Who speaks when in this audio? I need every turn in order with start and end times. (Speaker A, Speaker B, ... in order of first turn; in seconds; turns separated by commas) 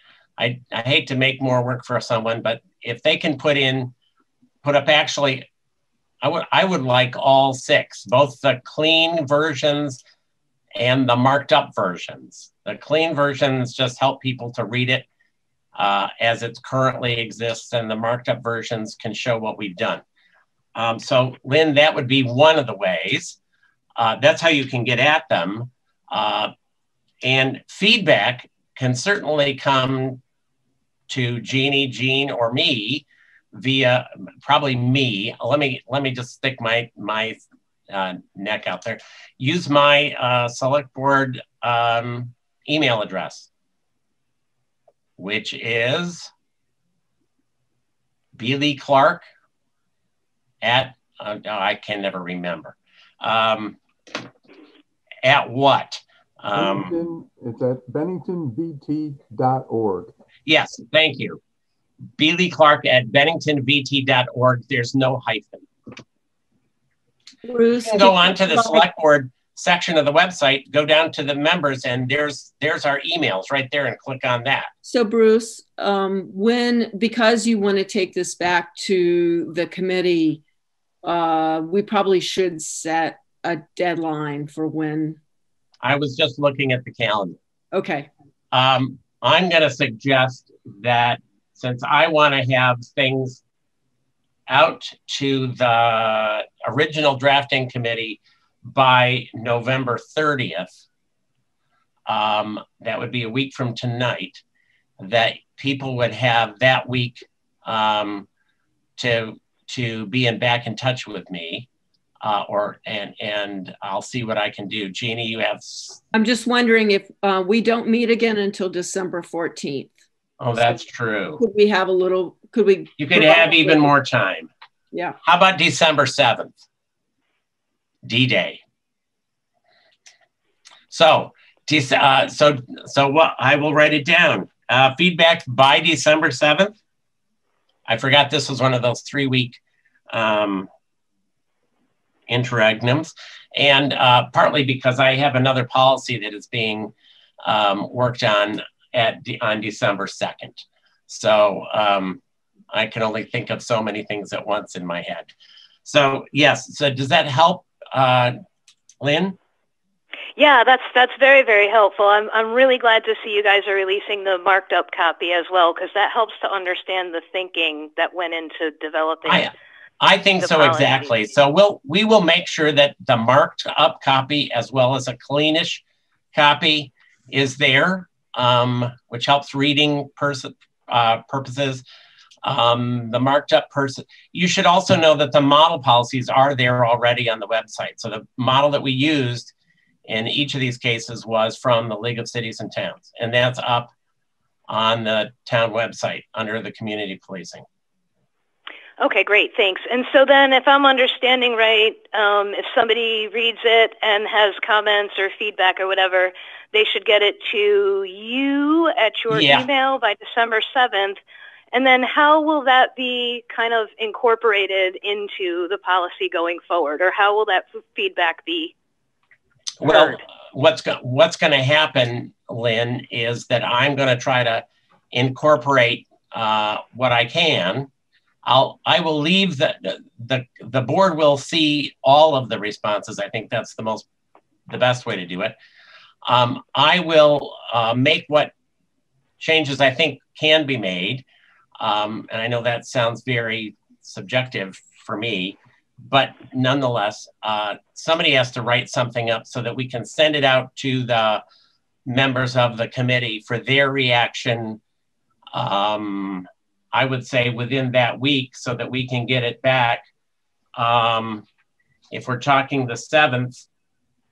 Speaker A: 0.4-3.9, Speaker A: 4.6-5.5, Speaker A: 6.2-10.0, Speaker A: 10.8-15.1, Speaker A: 15.8-20.0, Speaker A: 20.8-23.4, Speaker A: 24.0-26.5, Speaker A: 27.2-30.2, Speaker A: 31.1-37.4, Speaker A: 37.9-43.5, Speaker A: 45.2-46.3, Speaker A: 48.4-49.2, Speaker A: 50.6-53.8, Speaker A: 55.2-57.0, Speaker B: 56.5-60.1, Speaker A: 60.5-61.4, Speaker A: 62.2-65.7, Speaker C: 67.4-68.8, Speaker A: 67.9-74.7, Speaker C: 74.8-80.4, Speaker C: 81.0-85.2, Speaker A: 85.8-87.4, Speaker C: 87.7-88.1, Speaker A: 88.5-93.4, Speaker A: 94.5-100.8, Speaker A: 102.1-104.4, Speaker A: 105.0-108.3, Speaker A: 109.0-111.7, Speaker A: 112.2-116.0, Speaker C: 116.1-120.0, Speaker A: 120.4-121.4, Speaker C: 121.4-123.9, Speaker A: 123.0-124.5, Speaker C: 124.9-125.2, Speaker A: 125.2-126.6, Speaker A: 128.1-128.6, Speaker A: 130.9-136.8, Speaker A: 137.9-139.6, Speaker A: 140.1-140.7, Speaker A: 142.3-146.9, Speaker A: 147.4-152.2, Speaker A: 152.7-155.3, Speaker A: 155.8-158.4, Speaker A: 159.0-159.4, Speaker D: 160.4-169.5, Speaker A: 169.3-181.8, Speaker D: 170.4-171.3, Speaker A: 182.4-189.5, Speaker A: 190.1-193.9, Speaker A: 194.7-197.7, Speaker D: 199.0-211.2, Speaker A: 209.3-209.7, Speaker D: 211.7-218.7, Speaker A: 219.8-227.9, Speaker D: 219.8-220.2, Speaker A: 228.4-234.1, Speaker A: 234.7-235.6, Speaker A: 236.2-238.5, Speaker A: 239.4-241.2, Speaker A: 241.8-251.4, Speaker A: 252.1-254.8, Speaker A: 255.5-260.1, Speaker A: 260.8-261.5, Speaker A: 262.1-263.7